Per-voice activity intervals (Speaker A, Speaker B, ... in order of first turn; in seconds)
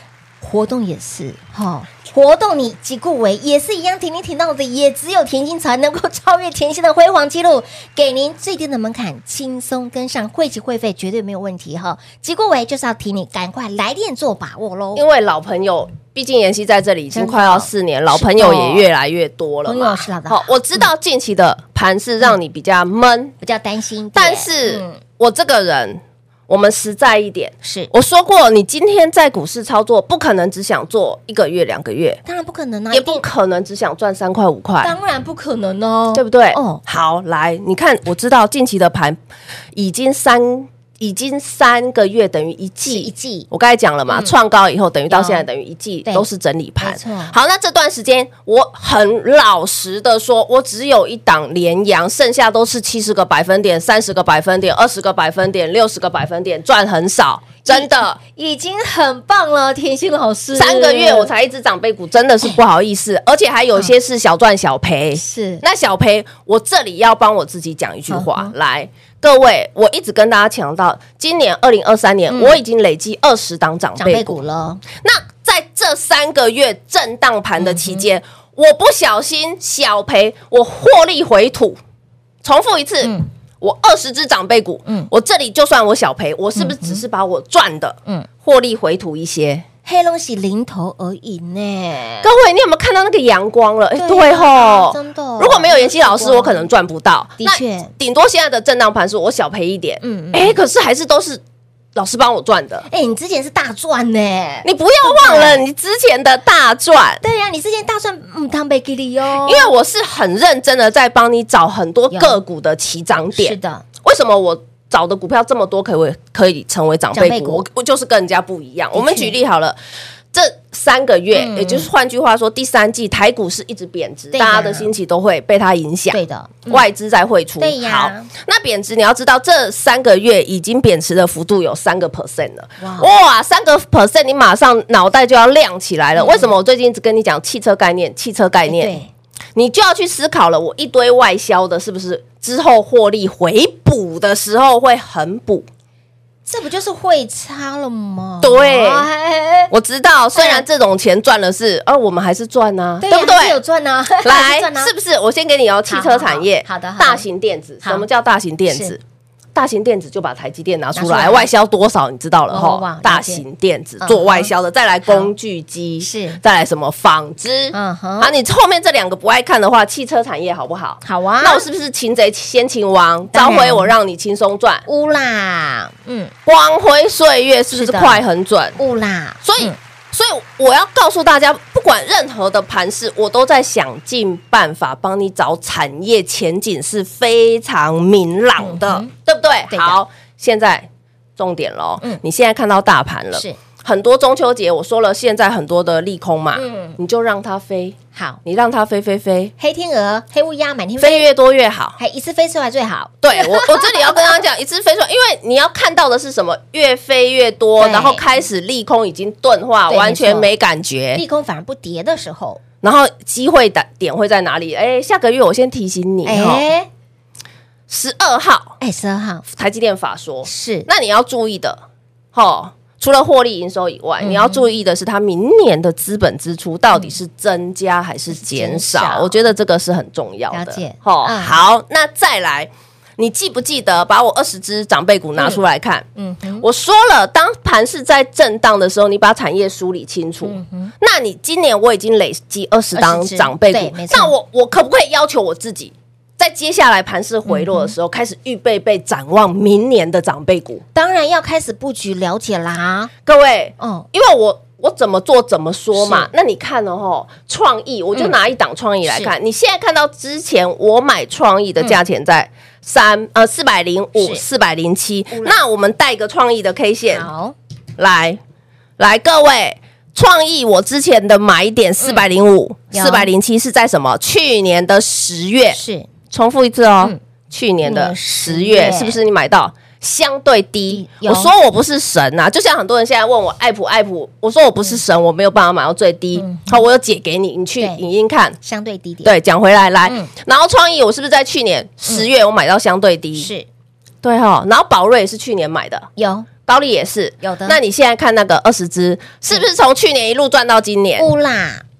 Speaker A: 0.4-15.0, 17.1-18.9, 19.7-20.9, 23.4-25.0, 27.6-27.9, 32.2-33.2, 34.8-36.8, 42.9-43.5, 45.1-45.5, 46.8-47.4, 57.6-61.3, 65.2-65.6, 68.1-68.5, 72.3-72.6, 74.0-74.8, 77.6-78.0, 83.0-83.3, 86.6-87.0, 89.8-92.3, 94.0-96.7, 97.4-97.9, 100.0-100.6, 102.9-105.6, 107.2-109.7, 112.1-112.4, 113.4-113.8, 117.1-117.6, 118.9-119.4, 121.3-121.9, 124.3-124.9, 126.1-126.8, 127.6-128.3, 132.8-133.1, 136.2-136.6, 138.7-139.1, 146.5-149.7, 150.4-150.6, 153.0-154.9, 155.9-157.2, 158.7-158.9, 160.9-161.5, 162.5-163.4, 164.0-164.5, 165.1-165.3, 166.0-166.4, 167.7-168.3, 171.0-171.7, 173.3-173.9, 174.9-176.3, 177.7-178.2, 178.8-179.8, 188.6-189.1, 189.7-190.0, 196.6-197.0, 198.1-198.4, 199.6-201.3, 202.0-204.3, 207.8-208.3, 209.9-210.5, 211.1-212.6, 216.2-216.9, 218.8-219.4, 220.4-220.9, 224.2-224.7, 228.3-229.3, 230.5-231.6, 235.4-235.6, 236.2-236.7, 240.4-240.9, 242.9-244.3, 247.5-247.9, 250.9-253.1, 253.8-254.1, 256.0-256.3, 259.1-259.3, 264.2-264.4, 265.3-265.6, 267.1-267.6, 272.0-272.3, 272.9-273.3, 275.7-276.1, 277.9-279.2, 280.9-281.5, 286.4-286.8, 288.6-289.3, 293.4-293.7, 296.2-296.5, 297.4-297.8, 301.2-301.8
Speaker B: 14.9-23.3, 24.2-32.2, 32.9-35.0, 36.1-39.2, 39.8-58.2, 60.5-74.4, 75.0-81.8, 82.4-89.7, 92.2-101.4, 102.0-102.9, 104.6-107.2, 109.4-119.8, 120.3-139.0, 139.6-145.7, 148.4-149.1, 149.7-153.6, 154.2-159.0, 159.6-174.8, 176.5-178.8, 179.4-199.5, 201.0-202.0, 203.2-211.2, 212.8-216.6, 217.9-218.8, 219.5-221.8, 222.3-236.1, 236.6-250.8, 253.3-267.3, 268.0-268.4, 269.0-288.6, 289.2-293.5, 294.2-296.1, 296.7-301.3